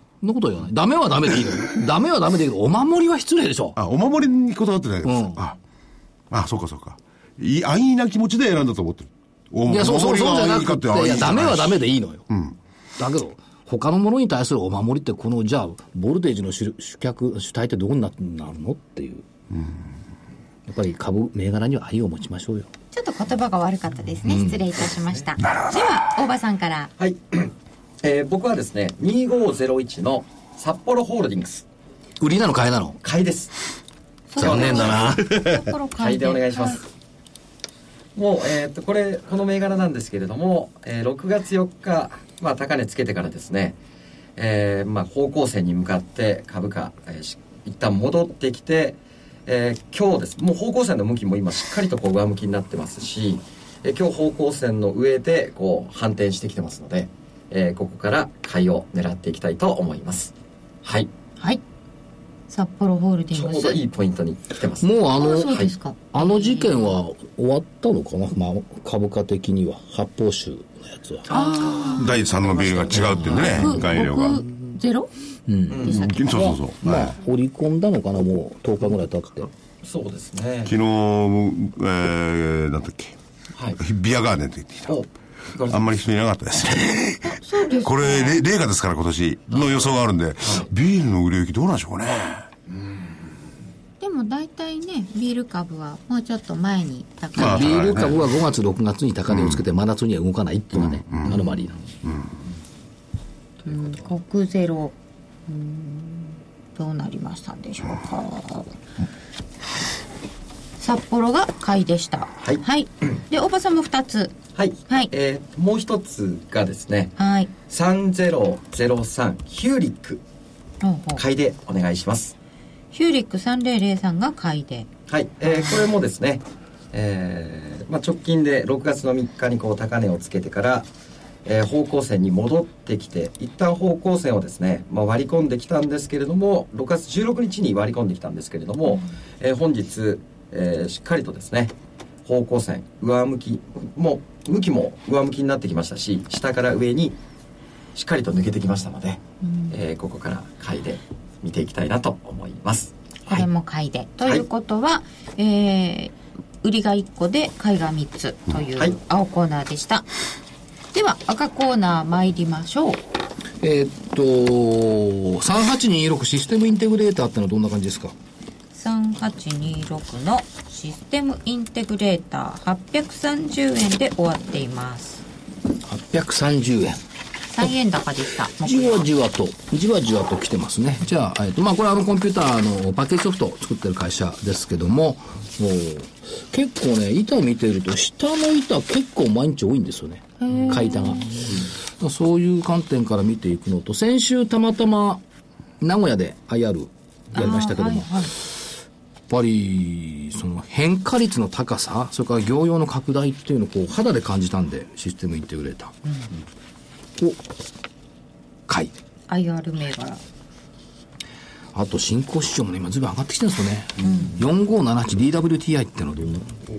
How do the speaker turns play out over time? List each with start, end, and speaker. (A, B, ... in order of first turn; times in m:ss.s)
0:00.2-0:03.8 A
0:03.8-0:05.6 B
0:05.0-0:05.4 A
0:06.3-0:12.6 B
0:09.6-0:12.2 A
0:13.0-0:19.2 A
0:20.7-0:22.7 A
0:22.9-0:26.9 C
0:24.2-0:24.6 A
0:24.9-0:25.2 D
0:25.4-0:26.1 B
0:27.0-0:31.6 D
0:32.2-0:33.0 A
0:33.0-0:33.5 D
0:34.3-0:36.8 C
0:34.4-0:35.2 A
0:34.4-0:35.1 D
0:34.4-0:34.8 B
0:36.0-0:36.8 D
0:38.1-0:43.8 D
0:44.4-1:00.3 D
1:00.8-1:01.1 D
1:02.5-1:03.8 C
1:03.3-1:05.7 D
1:04.8-1:05.6 A
1:05.2-1:07.0 C
1:06.1-1:11.3 A
1:11.3-1:13.8 D
1:11.3-1:12.1 C
1:11.9-1:14.4 B
1:12.9-1:13.7 A
1:13.2-1:15.1 C
1:15.5-1:19.5 A
1:15.7-1:16.0 D
1:15.8-1:16.4 C
1:15.9-1:17.1 B
1:19.8-1:20.7 D
1:20.6-1:23.2 B
1:23.8-1:25.0 B
1:24.9-1:26.0 D
1:25.7-1:32.4 B
1:27.2-1:28.4 C
1:29.5-1:30.7 D
1:32.7-1:33.1 D
1:34.0-1:37.8 C
1:37.3-1:38.2 B
1:37.4-1:41.8 A
1:39.3-1:39.6 B
1:40.8-1:41.4 B
1:42.0-1:42.3 B
1:43.6-1:44.0 D
1:43.6-1:44.9 C
1:45.5-1:48.7 C
1:50.8-1:54.3 C
1:52.4-1:53.2 D
1:54.5-1:57.2 D
1:57.2-1:57.5 C
1:57.7-2:00.2 D
2:00.8-2:01.2 C
2:01.2-2:02.3 D
2:02.9-2:04.9 C
2:05.1-2:10.9 D
2:05.4-2:05.9 C
2:11.4-2:21.7 D
2:22.2-2:27.2 D
2:27.9-2:33.5 D
2:29.4-2:29.8 C
2:33.3-2:40.1 C
2:40.9-2:43.0 C
2:43.6-2:48.1 A
2:48.7-2:55.2 C
2:55.8-2:57.0 A
2:57.5-2:59.1 C
2:58.6-3:15.2 A
3:10.4-3:11.5 C
3:15.8-3:18.3 A
3:17.3-3:18.3 C
3:19.3-3:25.9 A
3:26.0-3:26.3 C
3:27.2-3:27.4 A
3:28.7-3:28.9 A
3:29.3-3:30.2 C
3:31.7-3:36.5 A
3:34.0-3:34.4 C